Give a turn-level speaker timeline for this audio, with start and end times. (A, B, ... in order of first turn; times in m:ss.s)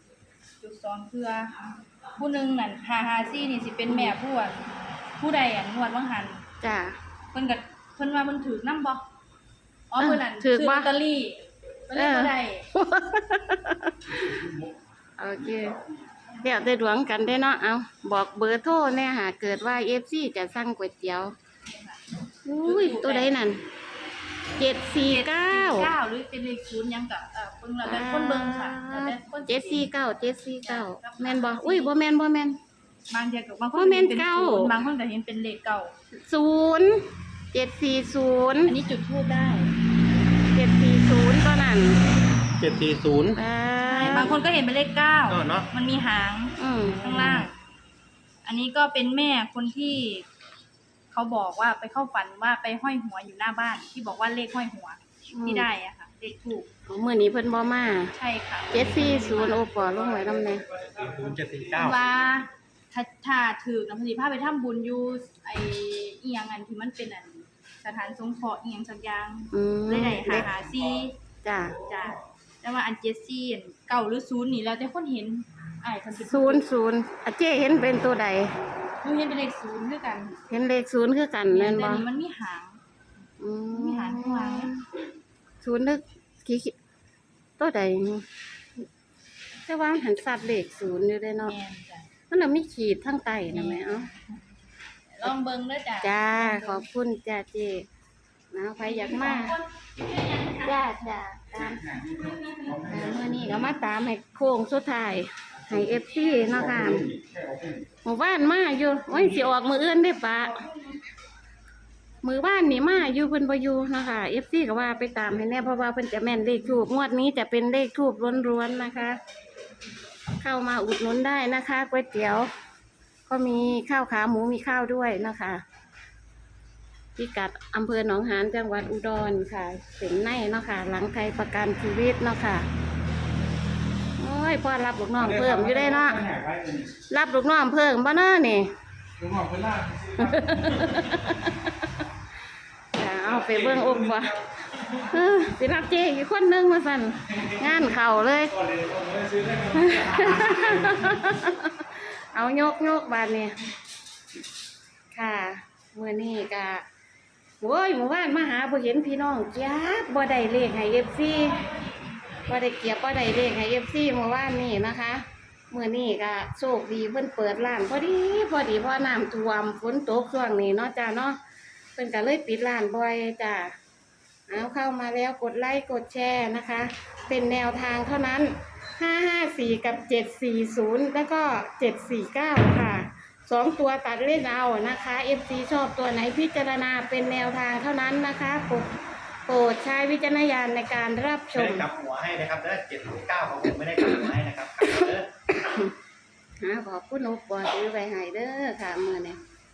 0:00.6-0:04.6 A
0:03.9-0:04.2 B
0:05.2-0:06.4 A
0:06.6-0:07.0 B
0:07.3-0:09.0 A
0:09.9-0:12.7 A
0:10.0-0:10.9 B
0:11.9-0:14.4 B
0:15.2-0:15.8 B
0:16.4-0:21.3 B
0:21.6-0:22.0 A
0:22.4-0:23.6 B
0:22.6-0:23.4 A
0:24.6-0:25.9 B
0:25.0-0:29.9 A
0:27.8-0:32.6 B
0:30.6-0:32.0 A
0:33.1-0:35.9 A
0:33.7-0:34.7 B
0:36.2-0:37.0 B
0:37.5-0:38.8 B
0:38.7-0:39.7 A
0:40.5-0:42.0 B
0:42.6-0:43.4 C
0:43.4-0:44.4 B
0:43.9-0:47.6 A
0:45.3-0:45.7 C
0:46.6-0:47.5 B
0:48.4-0:50.3 A
0:51.1-0:56.7 A
0:55.3-0:55.7 B
0:56.9-0:58.1 B
0:58.2-0:59.7 A
0:58.7-1:00.6 B
1:01.0-1:02.0 C
1:01.8-1:11.1 A
1:09.5-1:10.5 B
1:11.4-1:11.8 B
1:11.8-1:16.6 A
1:16.2-1:18.5 B
1:19.0-1:20.4 A
1:20.5-1:22.1 B
1:21.5-1:22.8 A
1:23.4-1:24.9 B
1:23.7-1:24.7 A
1:25.6-1:26.7 B
1:27.6-1:28.2 B
1:29.6-1:31.6 B
1:31.5-1:32.1 A
1:32.3-1:34.1 B
1:33.5-1:34.4 A
1:35.1-1:36.8 A
1:36.0-1:37.9 B
1:38.5-1:39.6 B
1:38.8-1:40.9 A
1:40.6-1:42.1 B
1:42.7-1:47.1 B
1:47.2-1:47.8 D
1:48.0-1:50.7 B
1:50.5-1:50.9 A
1:52.2-1:59.2 B
2:00.4-2:02.5 B
2:03.3-2:05.6 B
2:07.2-2:12.6 B
2:14.2-2:16.3 B
2:16.3-2:16.9 D
2:17.1-2:18.7 B
2:19.2-2:20.4 D
2:20.2-2:21.8 B
2:23.0-2:29.0 B
2:29.0-2:30.2 D
2:29.7-2:31.8 B
2:32.3-2:33.6 B
2:35.1-2:36.8 B
2:37.6-2:41.6 B
2:41.3-2:42.6 A
2:42.5-2:51.4 B
2:52.0-2:53.7 B
2:54.5-3:08.8 B
3:09.5-3:11.9 B
3:11.5-3:15.3 C
3:14.0-3:15.9 B
3:16.6-3:19.4 B